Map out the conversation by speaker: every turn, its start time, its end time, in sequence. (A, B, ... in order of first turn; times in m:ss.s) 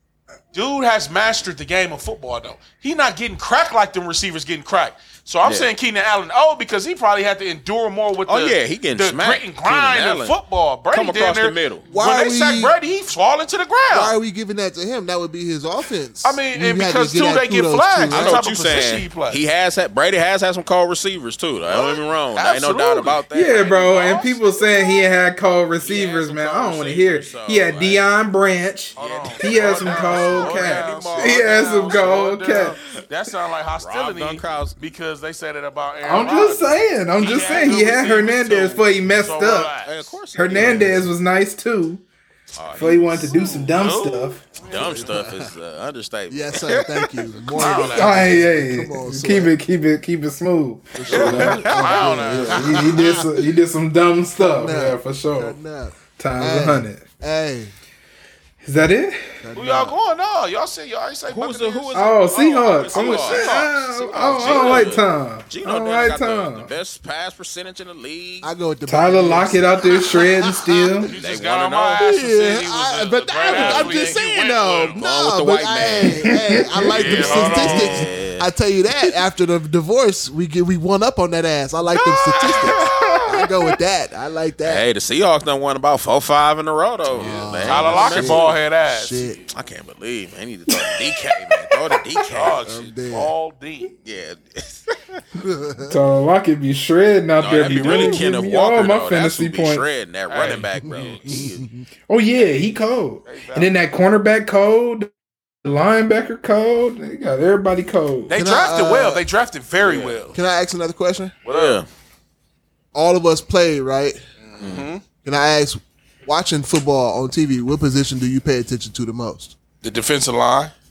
0:00.5-0:14.1 A
0:05.4-0:05.7 B
0:08.3-0:10.4 B
0:10.9-0:11.8 B
0:11.9-0:12.8 C
0:13.9-0:18.4 C
0:16.2-0:19.4 A
0:18.1-0:24.2 B
0:21.7-0:24.3 A
0:23.3-0:32.8 D
0:25.8-0:28.0 B
0:29.0-0:32.7 B
0:29.0-0:40.1 A
0:33.8-0:34.8 B
0:36.0-0:39.7 D
0:39.5-0:41.0 B
0:40.3-0:42.0 D
0:40.6-0:41.0 C
0:42.5-0:43.5 B
0:42.7-0:44.5 D
0:43.3-0:45.1 A
0:44.6-0:45.5 C
0:44.6-0:48.1 B
0:46.3-0:49.5 C
0:47.6-0:48.4 A
0:48.0-0:55.6 D
0:50.9-0:53.5 C
0:51.1-0:52.6 A
0:51.2-0:52.6 B
0:54.4-0:57.7 C
0:56.2-0:57.0 D
0:58.6-0:59.4 D
0:59.4-0:59.9 C
0:59.5-1:03.7 A
1:01.3-1:08.5 B
1:01.9-1:06.7 D
1:04.4-1:04.8 A
1:08.4-1:11.0 C
1:08.9-1:11.1 D
1:11.0-1:15.0 A
1:11.1-1:12.0 B
1:12.0-1:24.8 C
1:13.4-1:14.2 B
1:14.9-1:18.5 B
1:16.3-1:16.6 D
1:16.9-1:18.1 A
1:22.0-1:23.5 B
1:22.3-1:23.3 A
1:24.6-1:28.6 B
1:27.1-1:29.4 C
1:27.2-1:29.4 A
1:29.5-1:32.6 B
1:32.3-1:33.9 A
1:32.6-1:33.3 C
1:34.0-1:35.2 B
1:35.4-1:36.0 C
1:35.9-1:39.8 D
1:37.4-1:41.6 B
1:37.6-1:38.2 A
1:40.3-1:41.4 A
1:40.8-1:41.8 C
1:42.1-1:45.1 D
1:42.4-1:43.7 A
1:45.6-1:48.3 D
1:48.3-1:50.3 A
1:48.3-1:49.2 C
1:49.8-1:50.2 B
1:50.3-1:51.4 C
1:51.4-1:51.8 A
1:51.5-1:51.9 B
1:52.9-1:54.2 C
1:54.4-1:55.0 A
1:54.6-1:54.9 B
1:55.2-1:59.5 C
1:59.8-2:00.7 A